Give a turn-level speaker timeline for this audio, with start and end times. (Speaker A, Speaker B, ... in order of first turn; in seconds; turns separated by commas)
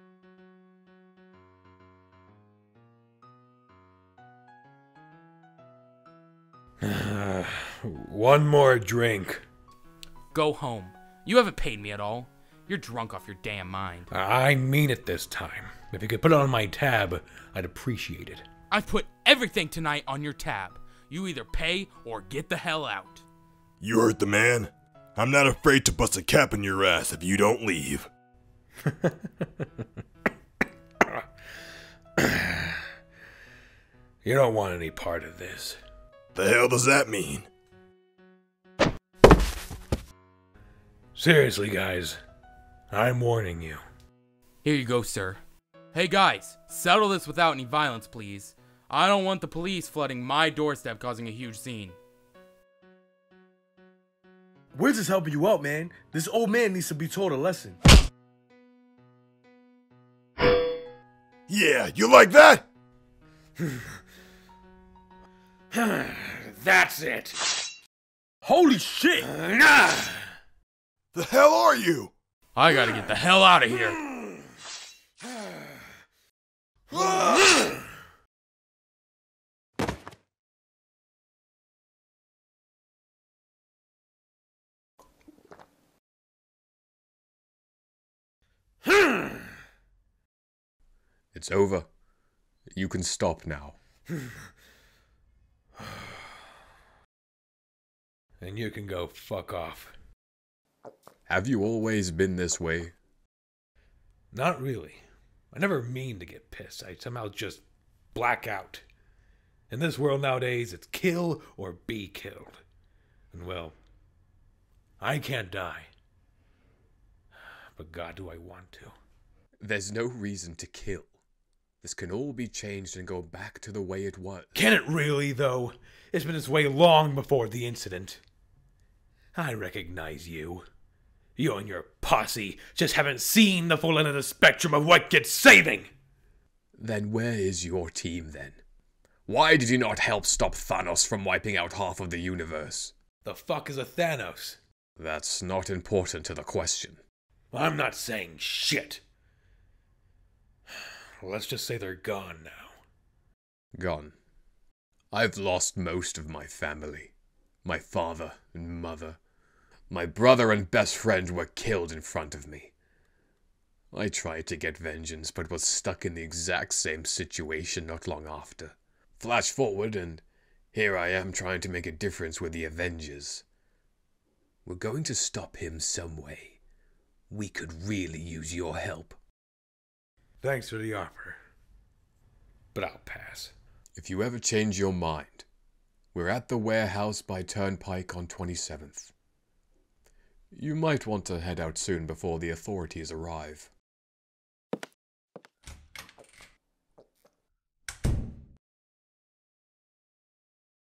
Speaker A: 6.8-9.4, Speaker B: 10.3-14.1, Speaker A: 14.1-18.4, Speaker B: 18.7-23.2, Speaker C: 23.8-28.1, Speaker A: 32.2-32.8, Speaker A: 34.2-35.8, Speaker C: 36.4-37.5, Speaker A: 41.1-42.2, Speaker A: 42.9-43.8, Speaker B: 44.6-45.4, Speaker B: 45.9-52.0, Speaker D: 54.7-57.8, Speaker C: 61.5-62.6, Speaker A: 65.7-67.5, Speaker D: 68.4-69.3, Speaker A: 69.2-70.2, Speaker C: 71.1-72.1, Speaker B: 72.5-74.0, Speaker A: 76.9-77.3, Speaker E: 91.3-91.9, Speaker E: 92.7-93.8, Speaker A: 98.4-99.9, Speaker E: 101.3-102.9, Speaker A: 104.3-108.8, Speaker A: 109.7-112.6, Speaker A: 113.3-113.8, Speaker A: 115.0-115.9, Speaker A: 117.7-118.9, Speaker E: 119.6-121.1, Speaker E: 121.8-124.7, Speaker A: 124.5-128.2, Speaker A: 129.3-130.7, Speaker A: 131.4-135.9, Speaker E: 136.8-138.6, Speaker E: 139.3-142.9, Speaker A: 143.2-144.6, Speaker E: 145.0-147.0, Speaker A: 147.5-149.0, Speaker A: 150.7-152.8, Speaker E: 153.7-154.1, Speaker E: 155.1-157.1, Speaker E: 157.6-159.2, Speaker E: 159.9-162.7, Speaker E: 163.9-173.4, Speaker E: 174.6-176.6, Speaker E: 177.3-179.2, Speaker A: 180.4-181.4, Speaker A: 182.7-183.5, Speaker E: 183.9-185.4, Speaker E: 186.1-189.1, Speaker E: 190.5-193.7